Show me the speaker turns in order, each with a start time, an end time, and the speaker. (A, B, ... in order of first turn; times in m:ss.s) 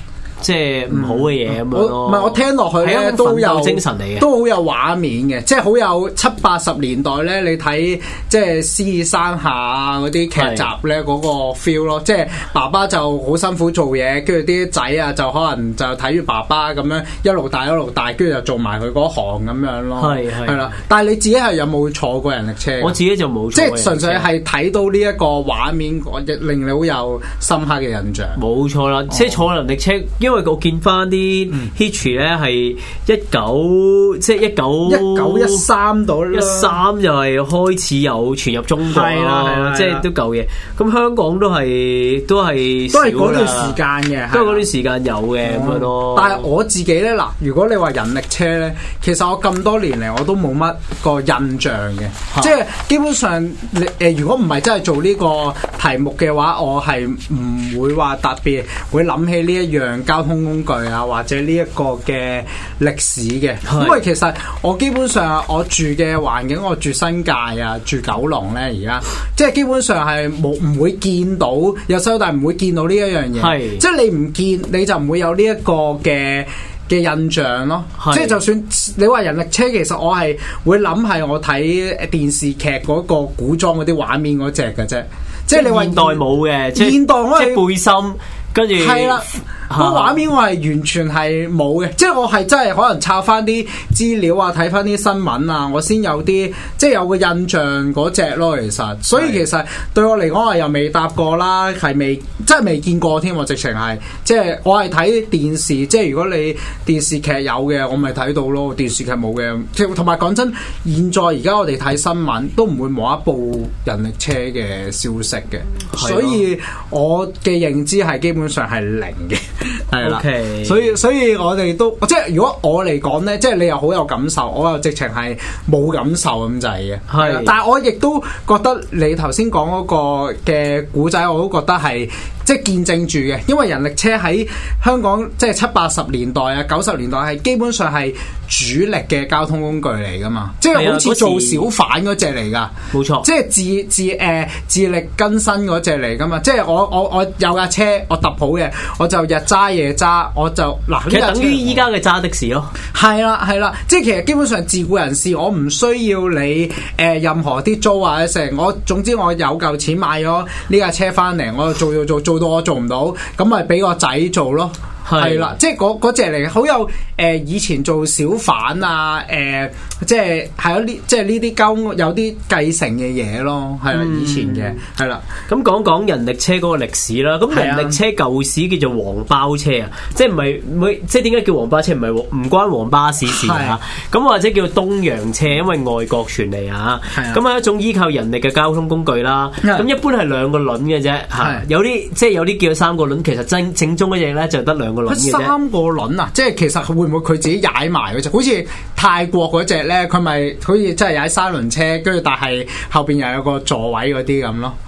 0:00.4-0:04.2 A
0:00.9-0:23.0 B
0:10.4-0:10.7 A
0:20.0-0:20.7 A
0:22.8-0:24.3 A
0:23.5-0:28.4 B
0:28.4-0:35.6 A
0:29.1-0:29.4 B
0:34.8-0:36.8 B
0:36.3-0:43.8 A
0:38.8-0:40.0 B
0:42.9-0:44.7 B
0:44.3-0:46.4 A
0:45.4-1:26.2 B
1:03.7-1:04.0 A
1:13.4-1:13.8 A
1:18.0-1:18.4 A
1:25.5-1:30.2 A
1:26.7-1:27.6 B
1:28.7-2:31.8 B
1:55.9-1:56.4 A
2:00.0-2:00.9 A
2:07.1-2:07.5 A
2:20.7-2:21.7 A
2:22.9-2:23.3 A
2:31.1-2:32.7 A
2:32.9-2:55.2 B
2:45.0-2:45.5 A
2:53.9-2:54.8 A
2:55.5-3:15.5 A
2:57.5-2:58.0 B
3:03.2-3:03.8 B
3:07.1-3:07.4 B
3:09.6-3:09.9 B
3:11.4-3:11.6 B
3:15.1-3:24.8 B